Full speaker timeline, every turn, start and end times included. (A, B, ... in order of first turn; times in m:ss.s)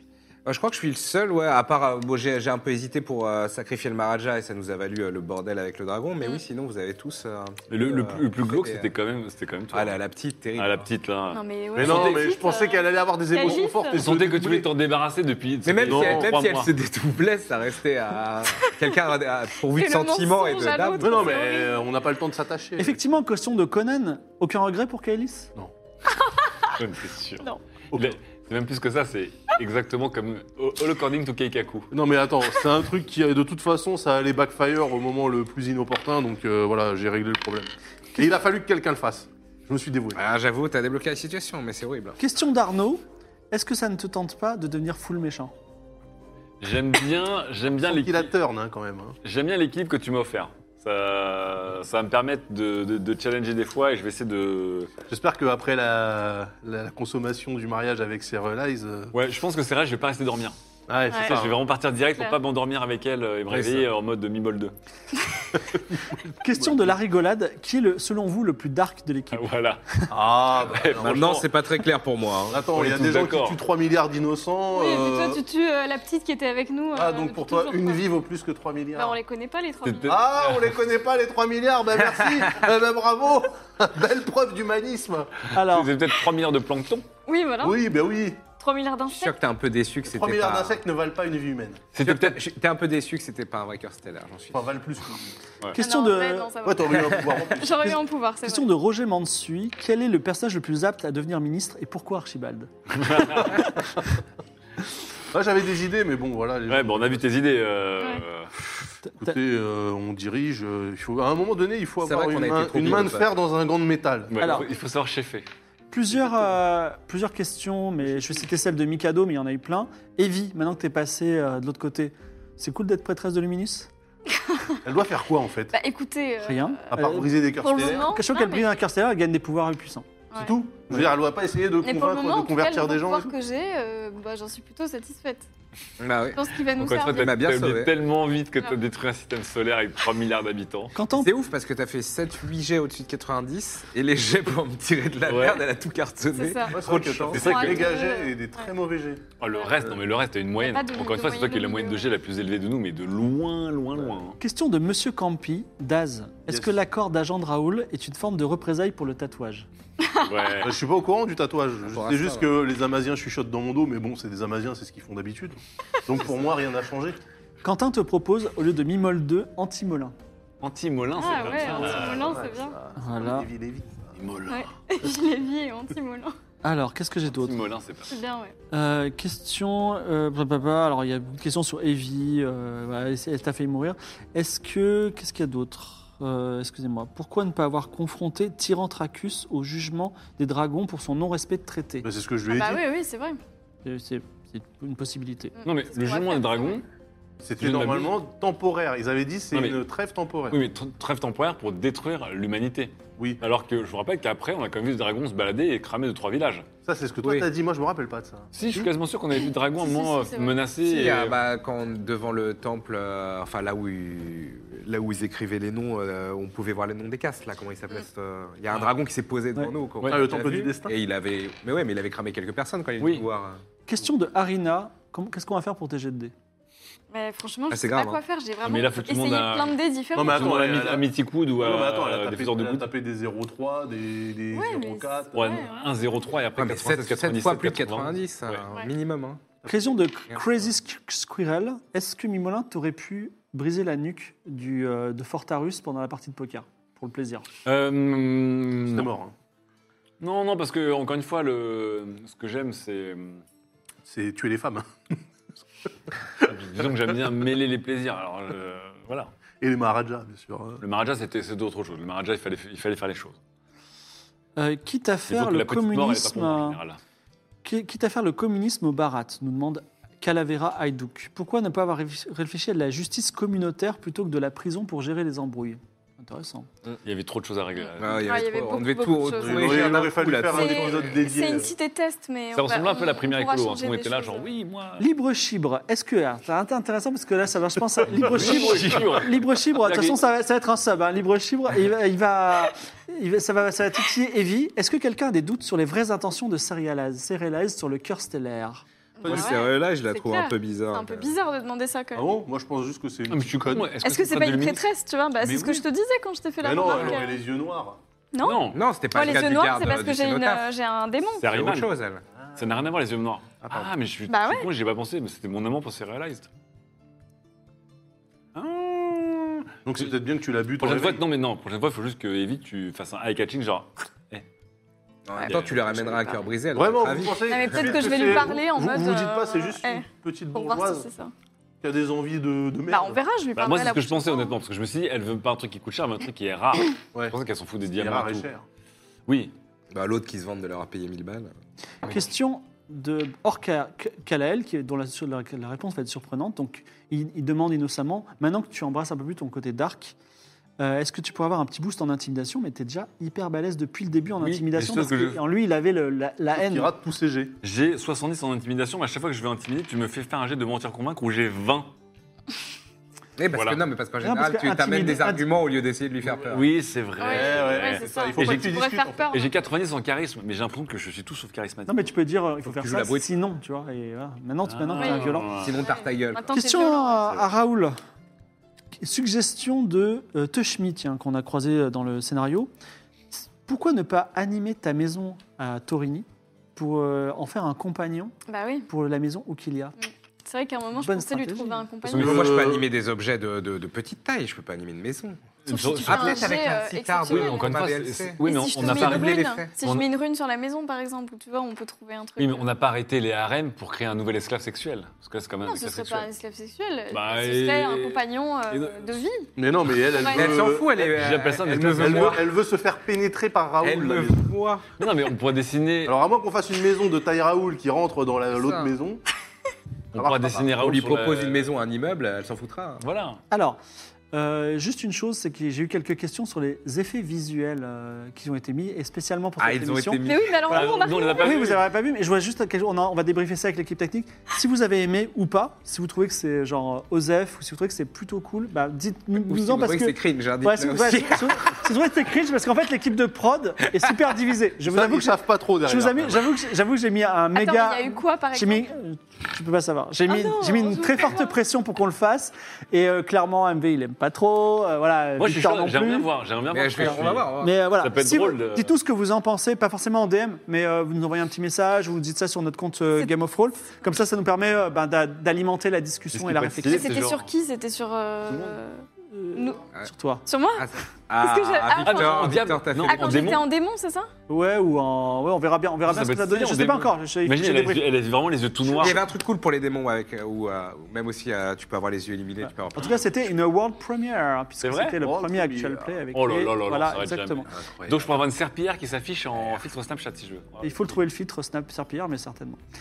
0:00.4-0:08.9 A
0:07.7-0:10.0 B
0:09.7-0:10.8 A
0:10.5-0:12.3 B
0:11.3-0:14.0 C
0:11.7-0:14.7 D
0:13.9-0:16.7 B
0:15.6-0:21.4 A
0:15.8-0:16.4 D
0:19.7-0:21.9 C
0:21.0-0:23.0 D
0:22.8-0:25.5 E
0:26.8-0:31.9 B
0:27.9-0:28.2 D
0:31.9-0:40.2 D
0:40.1-0:42.2 A
0:42.2-0:45.5 E
0:46.6-0:48.3 B
0:47.8-0:49.2 D
0:49.2-0:54.9 B
0:55.1-0:59.1 D
0:59.1-1:00.5 B
1:00.9-1:01.6 D
1:01.1-1:01.4 C
1:01.2-1:04.7 B
1:06.4-1:09.4 E
1:06.5-1:06.9 D
1:09.3-1:09.8 B
1:10.1-1:11.4 D
1:10.4-1:11.5 B
1:11.0-1:12.6 A
1:12.5-1:15.4 D
1:12.7-1:13.6 B
1:14.7-1:18.0 C
1:16.9-1:19.2 D
1:19.0-1:20.2 C
1:19.8-1:20.7 B
1:20.0-1:25.4 D
1:25.5-1:25.9 E
1:25.6-1:27.0 B
1:27.3-1:27.8 C
1:27.6-1:28.4 D
1:28.6-1:29.3 C
1:29.1-1:30.8 A
1:30.0-1:31.8 D
1:31.9-1:32.4 B
1:32.0-1:34.7 A
1:34.5-1:35.3 D
1:35.7-1:36.5 E
1:35.8-1:38.7 C
1:36.6-1:38.0 D
1:38.4-1:43.9 E
1:42.9-1:43.6 B
1:45.3-1:47.2 D
1:46.7-1:48.5 B
1:49.0-1:49.3 E
1:49.2-1:54.3 D
1:52.0-1:53.3 A
1:54.3-1:55.5 B
1:54.4-1:54.7 E
1:55.9-2:03.9 E
1:58.1-1:58.4 D
2:04.3-2:04.8 C
2:04.8-2:05.7 D
2:05.7-2:06.8 C
2:06.4-2:07.3 E
2:06.9-2:08.1 D
2:07.6-2:08.7 C
2:08.0-2:10.1 E
2:10.4-2:13.3 D
2:11.8-2:15.5 C
2:16.0-2:17.9 A
2:16.3-2:17.4 C
2:16.7-2:20.9 B
2:20.9-2:21.3 E
2:21.1-2:27.8 A
2:25.2-2:25.6 B
2:26.3-2:26.8 C
2:26.7-2:29.2 D
2:27.3-2:27.9 B
2:27.3-2:28.4 C
2:29.4-2:34.4 B
2:30.6-2:32.1 C
2:34.4-2:39.7 E
2:36.5-2:36.8 D
2:40.0-2:40.3 C
2:40.2-2:40.8 B
2:40.6-2:47.2 D
2:41.9-2:42.5 A
2:47.6-2:50.1 E
2:50.6-2:52.4 B
2:51.2-2:52.8 C
2:51.5-2:54.2 D
2:53.0-2:53.5 E
2:54.2-2:54.6 B
2:54.5-2:56.3 C
2:56.6-2:57.6 E
2:57.3-2:58.1 B
2:58.1-2:58.5 C
2:58.7-3:12.1 E
3:12.0-3:12.8 D
3:12.5-3:13.4 C
3:13.8-3:15.5 E
3:15.6-3:16.8 C
3:15.6-3:16.8 B
3:17.4-3:20.6 D
3:17.6-3:18.1 B
3:19.5-3:19.8 B
3:20.5-3:26.6 B
3:26.8-3:28.9 D
3:27.2-3:27.5 A
3:28.5-3:31.4 B
3:29.8-3:30.6 C
3:30.8-3:43.6 A
3:40.0-3:40.3 B
3:40.1-3:41.0 D
3:43.0-3:43.2 B
3:43.9-3:46.3 E
3:47.1-3:50.4 C
3:47.7-3:48.2 A
3:48.6-3:52.9 B
3:50.1-3:55.6 D
3:54.5-3:55.8 C
3:55.3-3:58.6 B
3:56.6-3:59.4 A
3:59.6-3:59.9 D
3:59.6-4:07.5 E
4:07.6-4:09.1 B
4:08.8-4:09.3 D
4:10.2-4:13.4 B
4:14.1-4:15.2 D
4:16.4-4:19.3 B
4:19.6-4:20.8 D
4:20.8-4:23.4 B
4:24.6-4:26.8 E
4:25.3-4:27.0 B
4:27.6-4:36.7 E
4:37.0-4:38.5 B
4:37.8-4:44.4 C
4:38.0-4:41.1 A
4:39.4-4:41.7 D
4:42.5-4:45.0 B
4:45.0-4:58.8 E
4:48.2-4:50.2 B
4:59.2-5:02.3 C
4:59.2-4:59.6 D
4:59.2-5:01.3 A
5:02.1-5:03.9 D
5:03.3-5:04.9 B
5:04.0-5:07.4 C
5:05.4-5:05.8 B
5:06.6-5:08.0 D
5:06.8-5:07.2 A
5:08.3-5:11.5 C
5:08.4-5:08.8 B
5:08.7-5:10.6 A
5:11.4-5:11.9 B
5:11.5-5:12.2 A
5:12.6-5:16.5 B
5:14.3-5:14.7 C
5:18.6-5:20.0 B
5:19.8-5:21.2 D
5:20.8-5:24.4 B
5:25.3-5:28.2 A
5:25.3-5:25.7 C
5:25.5-5:26.1 B
5:26.7-5:31.1 D
5:27.5-5:31.3 C
5:31.8-5:33.2 D
5:32.9-5:34.5 C
5:33.6-5:38.5 B
5:37.9-5:38.6 D
5:39.3-5:39.5 B
5:39.9-5:41.5 A
5:42.0-5:50.2 E
5:50.8-5:56.9 E
5:54.4-5:55.4 B
5:56.5-5:57.6 D
5:57.6-6:01.9 B
6:03.4-6:06.6 A
6:03.5-6:03.8 B
6:04.2-6:05.5 E
6:06.3-6:12.1 B
6:07.2-6:09.5 C
6:07.2-6:09.3 D
6:11.9-6:15.5 E
6:12.6-6:13.3 A
6:14.6-6:15.8 B
6:15.0-6:17.3 C
6:15.6-6:16.5 A
6:16.5-6:18.0 E
6:19.0-6:22.7 E
6:23.3-6:28.3 E
6:28.5-6:28.9 C
6:28.9-6:29.9 E
6:30.4-6:32.7 C
6:31.0-6:31.8 E
6:32.0-6:39.7 A
6:32.1-6:32.9 D
6:35.6-6:36.6 B
6:35.7-6:42.6 C
6:37.3-6:40.1 B
6:42.4-6:46.3 B
6:45.6-6:50.7 C
6:47.1-6:49.2 B
6:49.6-6:51.2 D
6:50.3-6:52.4 A
6:51.0-6:52.4 B
6:52.0-6:54.5 D
6:53.8-6:54.9 A
6:55.0-6:56.1 B
6:56.0-6:59.2 D
6:58.5-6:58.9 A
7:00.1-7:00.7 D
7:00.1-7:01.7 B
7:00.8-7:03.0 A
7:03.0-7:03.4 B
7:03.5-7:03.8 E
7:04.3-7:36.3 E
7:09.6-7:10.6 A
7:10.2-7:11.7 C
7:10.6-7:11.8 B
7:19.4-7:21.8 A
7:24.8-7:26.5 D
7:27.5-7:28.9 C
7:30.3-7:31.6 C
7:35.4-7:38.9 B
7:36.7-7:37.7 A
7:37.6-7:47.1 E
7:46.3-7:47.5 B
7:46.9-7:49.8 C
7:48.5-7:48.8 B
7:49.3-7:50.4 E
7:50.5-7:50.9 C
7:50.8-7:53.5 A
7:51.4-7:54.3 C
7:52.0-7:53.7 B
7:54.5-7:58.0 E
7:56.0-7:59.3 B
7:58.9-8:03.4 A
8:02.6-8:07.7 E
8:04.8-8:05.2 B
8:05.2-8:06.2 D
8:06.3-8:11.1 B
8:07.7-8:08.3 A
8:10.8-8:12.8 E